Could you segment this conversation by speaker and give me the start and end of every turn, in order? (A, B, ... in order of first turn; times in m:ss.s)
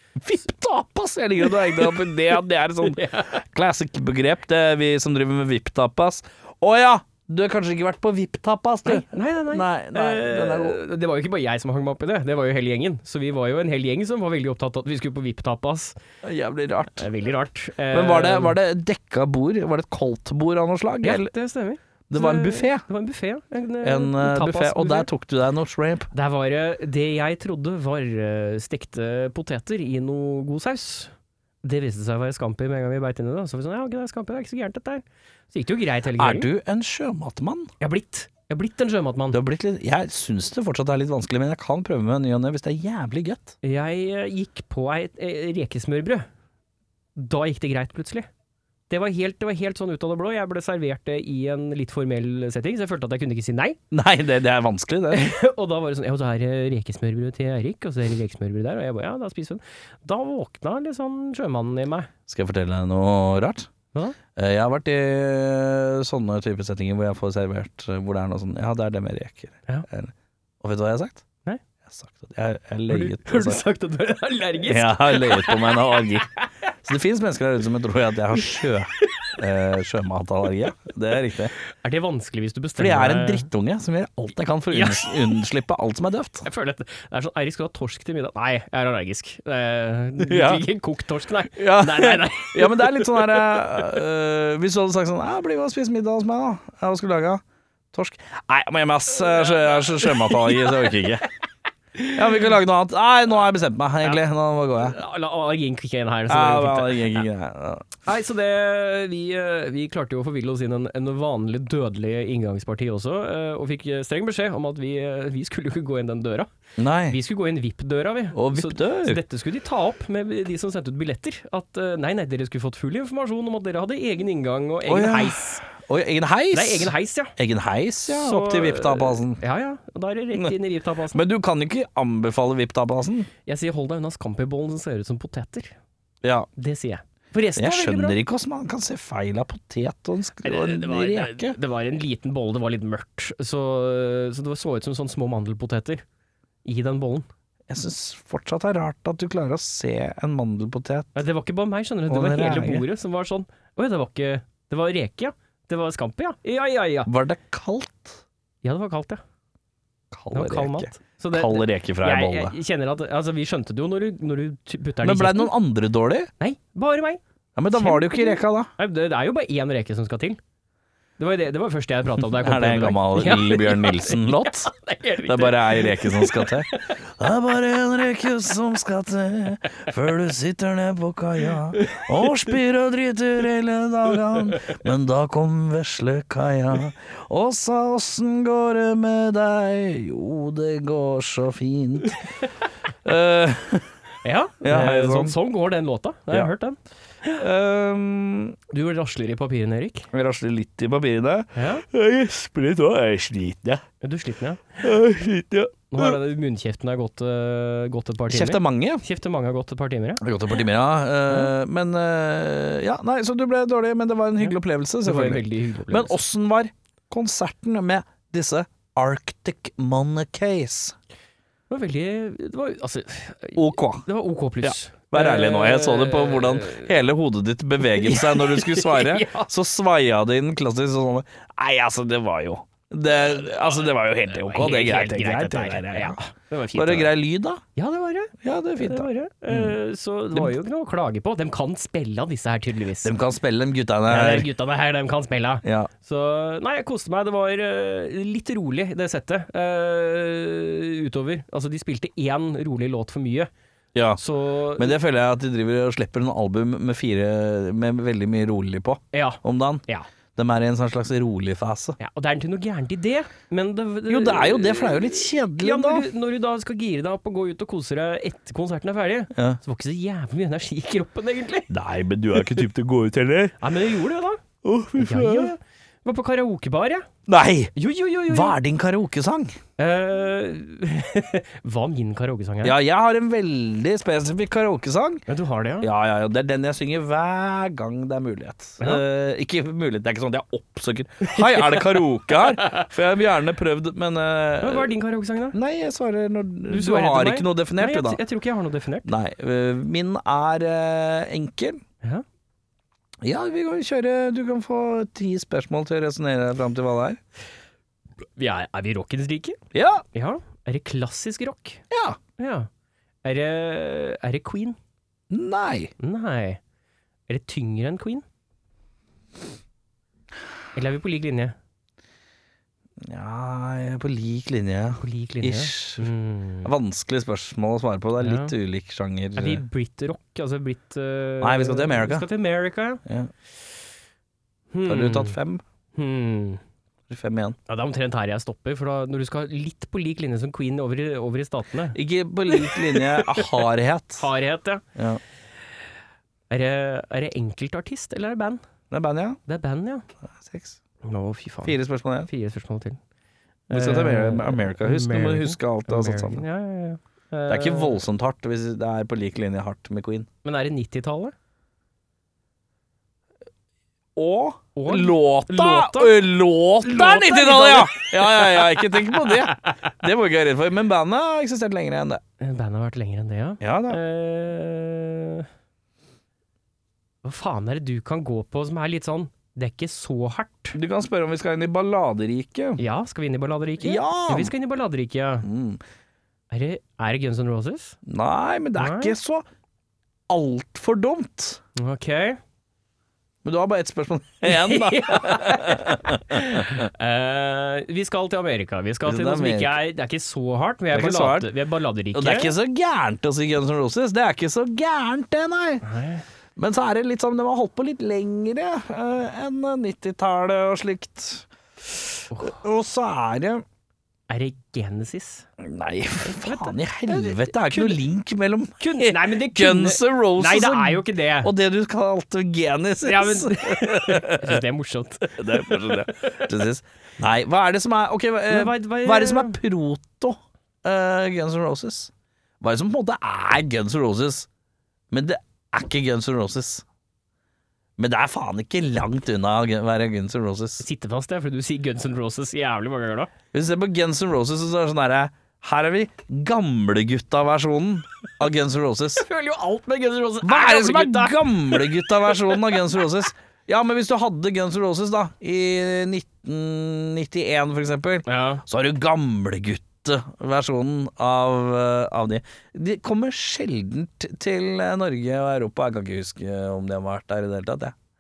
0:00.2-0:10.8 A
0:01.4-0:02.1 B
0:02.8-0:03.4 B
0:08.8-0:16.0 B
0:16.2-0:17.1 A
0:17.0-0:18.6 B
0:17.9-0:21.3 A
0:21.0-0:25.1 B
0:22.1-0:22.8 A
0:23.8-0:26.1 A
0:26.1-0:36.5 B
0:36.2-0:37.7 A
0:37.8-0:39.4 B
0:39.3-0:43.6 A
0:43.6-0:46.3 B
0:47.2-0:48.3 B
0:48.9-0:53.8 B
0:53.9-0:55.4 A
0:55.1-1:02.1 B
1:02.3-1:03.7 A
1:03.9-1:04.2 B
1:04.4-1:11.2 A
1:11.9-1:13.6 A
1:12.9-1:16.4 B
1:14.6-1:16.3 A
1:16.8-1:21.5 A
1:19.0-1:19.3 B
1:21.8-1:23.5 B
1:22.8-1:26.5 A
1:24.7-1:25.2 B
1:26.4-1:33.6 B
1:30.2-1:30.6 A
1:31.6-1:37.4 A
1:37.9-1:41.3 A
1:39.6-1:40.8 B
1:42.0-1:42.2 B
1:42.1-1:45.0 A
1:44.8-1:47.2 B
1:46.3-1:47.9 A
1:48.0-1:56.5 B
1:56.8-1:57.2 A
1:57.1-2:05.6 B
1:58.3-1:59.2 A
2:04.9-2:09.4 A
2:06.5-2:07.4 B
2:08.1-2:11.2 B
2:11.1-2:13.3 A
2:13.5-2:15.7 B
2:16.2-2:16.5 A
2:16.6-2:18.2 B
2:17.6-2:21.6 A
2:20.4-2:26.0 B
2:26.6-2:27.3 B
2:27.7-2:31.2 A
2:31.1-2:37.1 B
2:32.1-2:32.9 A
2:37.1-2:38.2 A
2:38.6-2:39.2 B
2:40.1-2:42.6 A
2:40.3-2:45.6 B
2:45.0-2:46.3 A
2:46.4-2:47.2 B
2:47.6-2:48.7 A
2:47.7-2:50.4 B
2:51.2-2:57.0 B
2:52.2-2:54.7 A
2:55.2-3:12.2 A
3:01.7-3:02.6 B
3:13.0-3:13.9 A
3:14.2-3:17.4 B
3:14.6-3:15.4 A
3:17.4-3:18.6 A
3:18.7-3:20.1 B
3:20.1-3:23.8 A
3:21.5-3:21.9 B
3:24.0-3:24.9 B
3:24.8-3:26.2 A
3:25.9-3:30.2 B
3:28.3-3:29.0 A
3:30.2-3:41.0 A
3:34.4-3:36.2 B
3:41.7-3:46.9 B
3:43.6-3:44.0 A
3:44.6-3:56.2 A
3:48.0-3:49.5 B
3:54.4-3:57.1 B
3:56.7-3:57.6 A
3:57.8-4:03.1 B
3:58.4-3:59.8 A
4:03.0-4:04.5 A
4:04.1-4:13.5 B
4:05.6-4:05.9 A
4:14.0-4:14.2 A
4:14.2-4:15.0 B
4:14.8-4:19.8 A
4:19.1-4:20.1 B
4:20.4-4:22.0 A
4:22.0-4:31.7 B
4:24.1-4:26.1 A
4:29.3-4:29.6 A
4:31.7-4:33.6 A
4:33.6-4:34.4 B
4:34.6-4:35.5 A
4:35.0-4:37.1 B
4:37.3-4:37.7 A
4:37.8-4:38.6 B
4:38.3-4:39.5 A
4:39.8-4:42.8 B
4:42.6-4:45.2 A
4:45.3-4:45.9 B
4:45.8-4:54.9 A
4:51.2-4:52.9 B
4:54.6-4:55.6 B
4:55.5-4:58.2 A
4:56.7-4:59.1 B
4:59.0-5:01.8 A
5:03.2-5:07.2 A
5:08.4-5:09.6 B
5:09.7-5:10.0 A
5:10.1-5:11.8 B
5:11.9-5:12.2 A
5:12.4-5:12.7 B
5:13.2-5:14.8 B
5:15.3-5:15.9 A
5:16.0-5:16.6 B
5:17.3-5:18.2 B
5:20.7-5:21.6 B
5:23.0-5:26.1 A
5:25.0-5:26.7 B
5:26.6-5:29.6 A
5:28.2-5:28.5 B
5:29.4-5:33.0 B
5:31.4-5:32.3 A
5:33.0-5:33.3 A
5:34.7-5:35.4 B
5:34.9-5:35.6 A
5:36.0-5:36.6 B
5:37.1-5:37.6 A
5:37.7-5:42.0 B
5:41.9-5:44.3 A
5:42.5-5:43.6 B
5:44.2-5:44.8 B
5:45.0-5:45.2 A
5:46.5-5:48.6 B
5:48.9-5:49.4 A
5:49.5-5:50.0 B
5:50.3-5:50.8 A
5:51.0-5:53.0 B
5:51.6-5:52.3 A
5:53.7-5:56.4 A
5:53.7-5:58.0 B
5:57.5-6:00.3 A
6:00.4-6:01.4 B
6:04.2-6:12.2 A
6:04.8-6:06.2 B
6:06.8-6:09.8 B
6:12.4-6:15.5 B
6:13.6-6:14.0 A
6:17.2-6:20.8 B
6:20.8-6:22.8 A
6:22.8-6:25.5 B
6:23.8-6:24.5 A
6:25.4-6:25.8 A
6:26.5-6:28.0 B
6:28.0-6:29.4 A
6:28.8-6:29.1 B
6:30.3-6:31.6 A
6:31.8-6:32.4 B
6:33.4-6:36.9 A
6:34.4-6:42.6 B
6:39.0-6:39.8 A
6:40.9-6:41.5 A
6:42.1-6:45.8 A
6:45.8-6:46.2 B
6:46.6-6:53.6 A
6:54.3-6:55.5 B
6:55.6-7:04.6 A
6:56.2-6:58.0 B
6:58.8-7:01.5 B
7:03.0-7:06.5 B
7:05.4-7:14.5 A
7:08.5-7:09.6 B
7:15.1-7:16.8 A
7:18.0-7:20.8 A
7:20.8-7:23.3 B
7:23.5-7:29.2 A
7:29.2-7:32.8 B
7:30.4-7:47.9 A
7:38.3-7:38.6 B